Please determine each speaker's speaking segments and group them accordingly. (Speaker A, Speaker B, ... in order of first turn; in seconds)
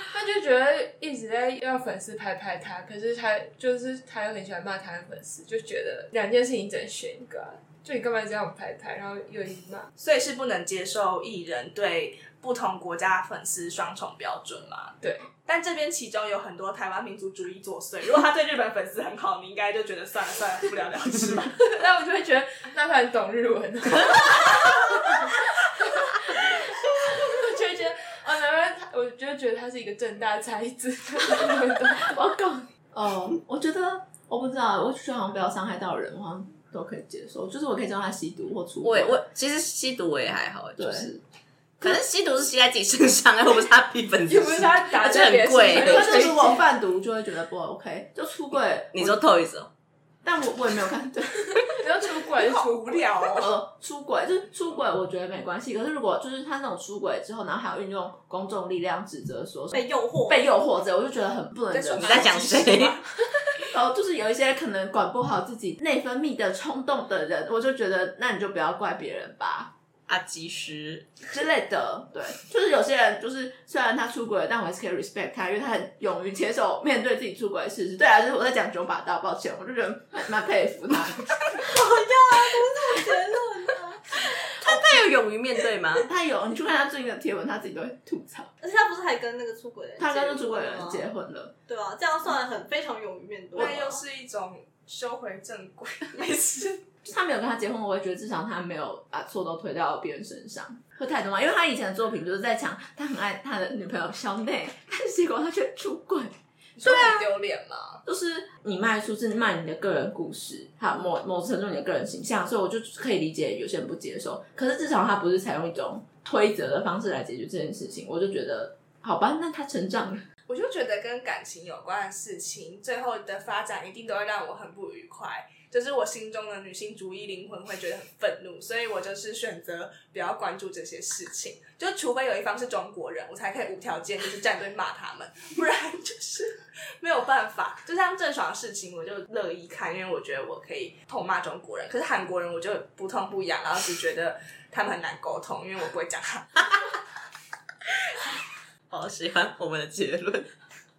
Speaker A: 0.1-9.9, 15.0-15.3, 21.6-32.2, 44.3-45.8, 51.7-53.0
Speaker B: 10.0-21.6, 45.0-46.6, 52.4-53.5, 61.7-63.1, 93.5-96.9, 106.8-108.0, 120.5-146.8
Speaker C: 32.0-39.2, 40.8-41.1, 45.0-49.2, 50.2-51.8, 53.3-62.4, 63.6-69.7, 71.3-81.6, 86.0-88.5, 90.0-91.5, 97.0-106.3, 106.9-107.2, 108.1-120.2
Speaker D: 38.8-41.2, 41.8-46.4, 48.9-49.7, 61.9-63.0, 70.1-71.1, 84.4-86.1, 148.9-150.5
Speaker E: 59.7-60.5, 81.6-84.3, 88.6-91.1, 91.7-94.0